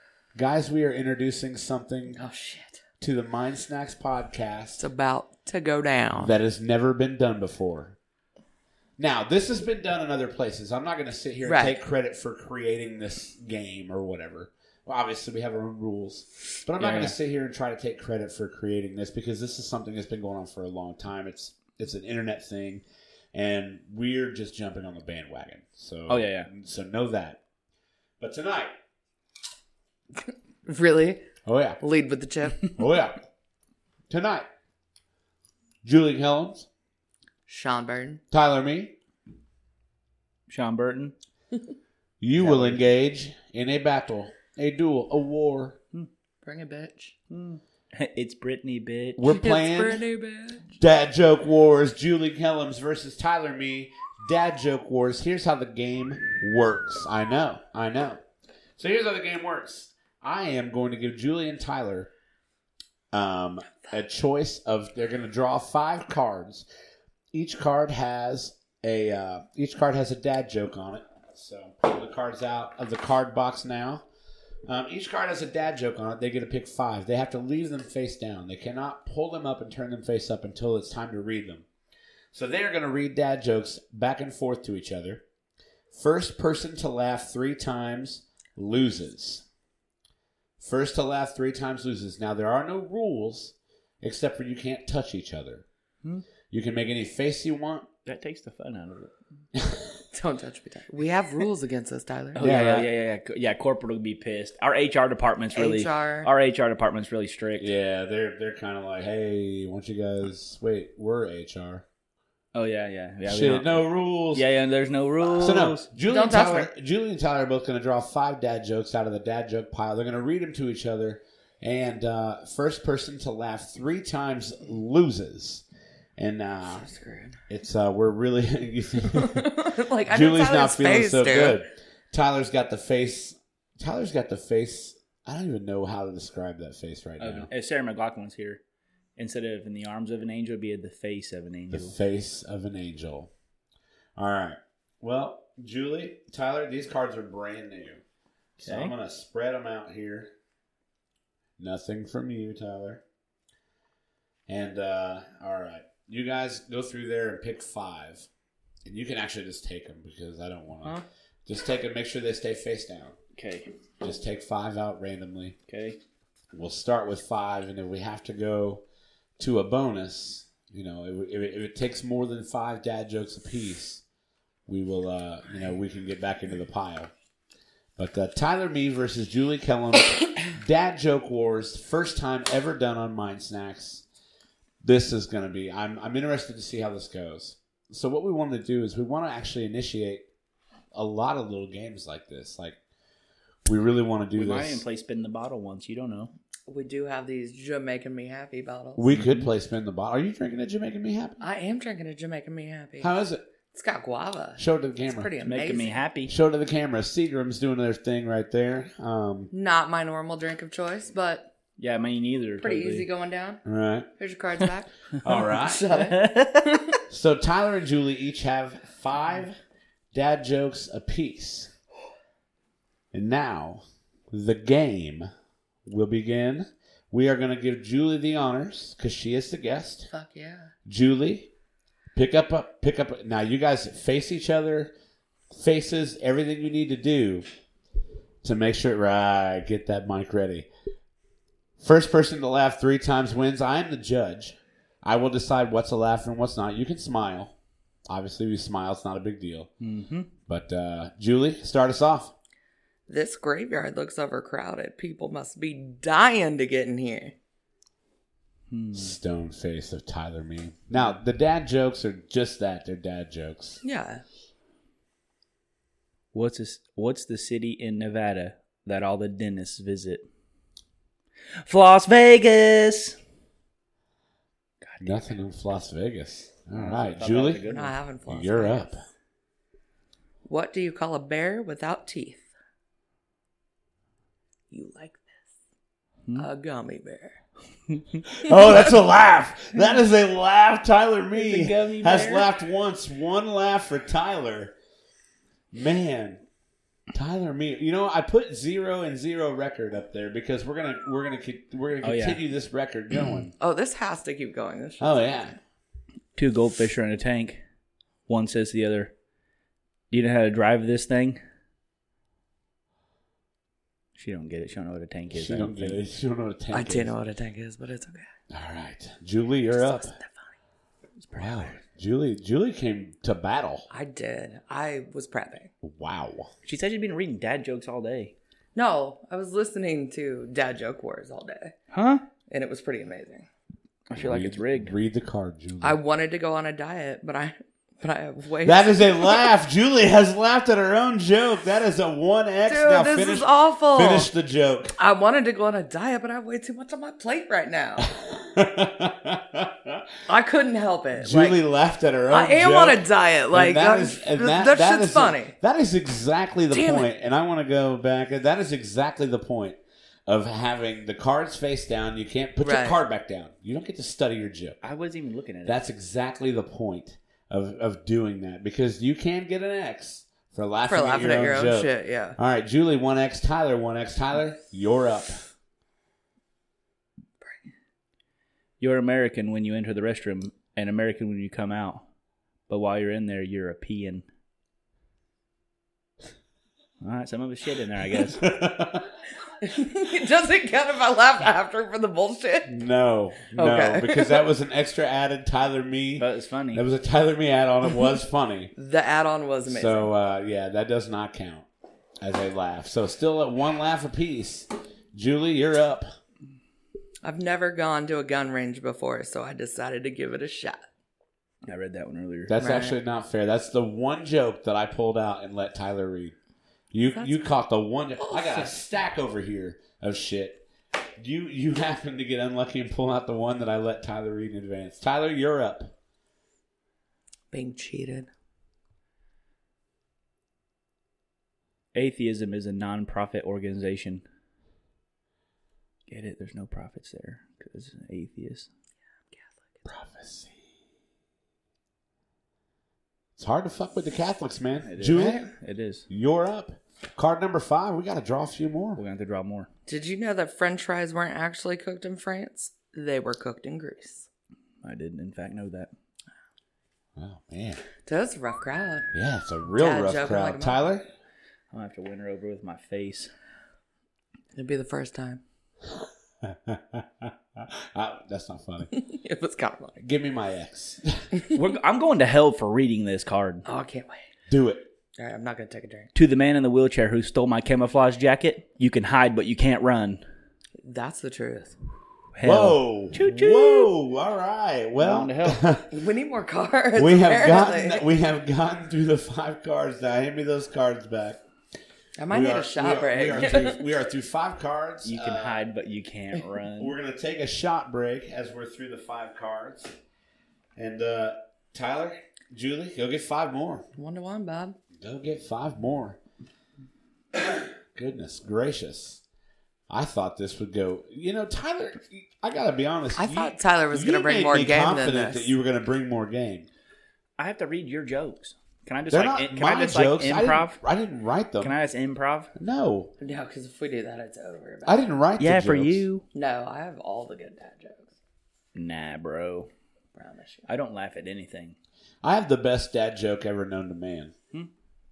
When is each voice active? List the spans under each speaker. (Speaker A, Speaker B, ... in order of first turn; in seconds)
Speaker A: 0.3-2.2, 3.0-4.8, 6.2-8.0, 9.0-27.4, 28.2-28.7, 31.4-31.8, 32.7-33.2, 34.1-34.5, 35.8-36.7, 38.3-39.0, 42.2-45.8, 49.2-50.0, 50.8-58.2, 58.8-62.1, 63.1-66.7, 67.3-74.0, 74.7-81.7, 82.3-85.2, 85.9-89.5, 90.6-95.7, 96.5-97.9, 99.6-99.9, 102.4-102.9, 107.6-111.8, 113.3-114.5, 115.3-125.6, 126.2-126.9, 127.5-137.5, 141.7-143.3, 144.2-148.0, 148.6-150.3, 151.6-153.0, 154.5-158.3, 158.8-163.2, 164.0-165.6, 166.5-168.8, 169.4-174.0, 174.7-177.1, 178.0-184.1, 184.8-190.3, 190.9-192.8, 193.7-194.8, 199.0-201.4, 203.0-203.4, 204.6-205.3, 206.3-209.5, 213.7-214.1, 215.2-215.8, 217.1-219.6, 220.1-221.7, 223.1-225.3, 225.9-230.1, 230.9-231.5, 232.1-234.9, 235.5-237.5, 238.4-240.7, 241.8-247.5, 248.1-249.7, 250.5-252.3, 258.9-263.8, 275.0-277.6, 278.3-279.0, 288.3-294.7, 295.7-296.4, 297.1-303.5, 305.0-305.6, 315.3-317.1, 318.5-320.1, 321.4-323.9, 325.8-326.5, 334.2-336.0, 338.6-344.9, 348.0-350.0, 351.2-364.8, 365.7-375.4, 388.3-389.1, 392.7-398.7, 399.7-401.7, 402.2-406.1, 412.5-416.4, 416.9-420.6, 421.2-425.9, 439.9-440.6, 443.4-445.5, 446.1-449.0, 457.2-457.8, 459.1-461.1, 465.9-468.9, 470.0-471.3, 474.5-474.9, 482.4-485.9, 487.0-491.4, 492.3-495.7, 496.8-499.9, 500.8-503.9, 505.0-506.2, 507.3-509.2, 509.9-516.7, 519.1-521.8, 522.6-523.1, 524.9-526.1, 532.2-534.3
Speaker B: 2.1-2.8, 4.8-6.3, 11.4-11.8, 30.7-31.3, 31.8-32.8, 37.5-38.2, 46.4-47.1, 49.3-50.7, 100.1-102.4, 105.5-106.3, 116.1-116.7, 126.8-127.4, 129.1-131.6, 196.7-199.0, 201.4-203.1, 203.7-206.0, 209.5-211.5, 212.6-213.6, 214.2-217.0, 230.1-230.7, 253.1-257.3, 263.8-264.2, 277.6-279.0, 280.4-282.5, 284.7-285.5, 286.4-287.4, 303.6-305.3, 316.7-318.3, 319.7-320.3, 323.9-325.7, 328.8-331.8, 332.5-333.5, 335.8-339.5, 342.7-344.3, 345.0-348.1, 350.3-351.6, 352.3-355.6, 356.7-357.1, 362.6-363.0, 370.9-372.4, 389.6-392.8, 393.6-394.5, 398.8-400.1, 407.2-410.9, 412.6-413.0, 418.2-418.7, 427.5-428.3, 449.9-454.3, 458.1-459.1, 459.8-460.8, 464.6-465.4, 468.9-470.0, 473.7-474.2, 475.2-476.1, 480.8-481.8, 485.9-488.1, 492.2-493.8, 504.0-504.8, 513.2-515.5, 523.2-525.0, 526.3-528.1, 530.1-530.7
Speaker C: 16.8-17.2, 26.1-26.5, 40.5-41.1, 42.4-42.9, 47.3-49.2, 98.0-99.1, 102.3-107.7, 112.5-115.9, 137.2-138.6, 139.2-141.9, 148.6-148.9, 163.3-163.7, 165.7-166.0, 194.3-196.3, 199.1-199.5, 205.4-206.3, 211.8-213.1, 215.9-216.8, 249.8-250.3, 258.7-259.2, 266.3-270.3, 271.6-273.2, 274.8-275.3, 276.7-277.9, 287.9-288.2, 291.3-292.5, 302.0-302.4, 306.4-307.6, 308.3-309.1, 310.1-311.4, 314.2-316.0, 321.2-321.8, 326.6-328.3, 331.9-332.2, 334.1-334.9, 364.8-365.8, 378.8-382.1, 382.7-384.3, 387.0-388.4, 396.2-396.8, 411.6-412.5, 431.9-434.2, 436.1-438.7, 444.9-446.1, 449.0-449.7, 454.8-455.9, 461.7-463.3, 471.5-473.6, 476.1-480.2, 482.3-483.9, 485.0-485.6, 495.0-496.9, 517.4-520.8, 521.6-522.5, 525.4-526.2, 528.8-529.7, 530.7-531.8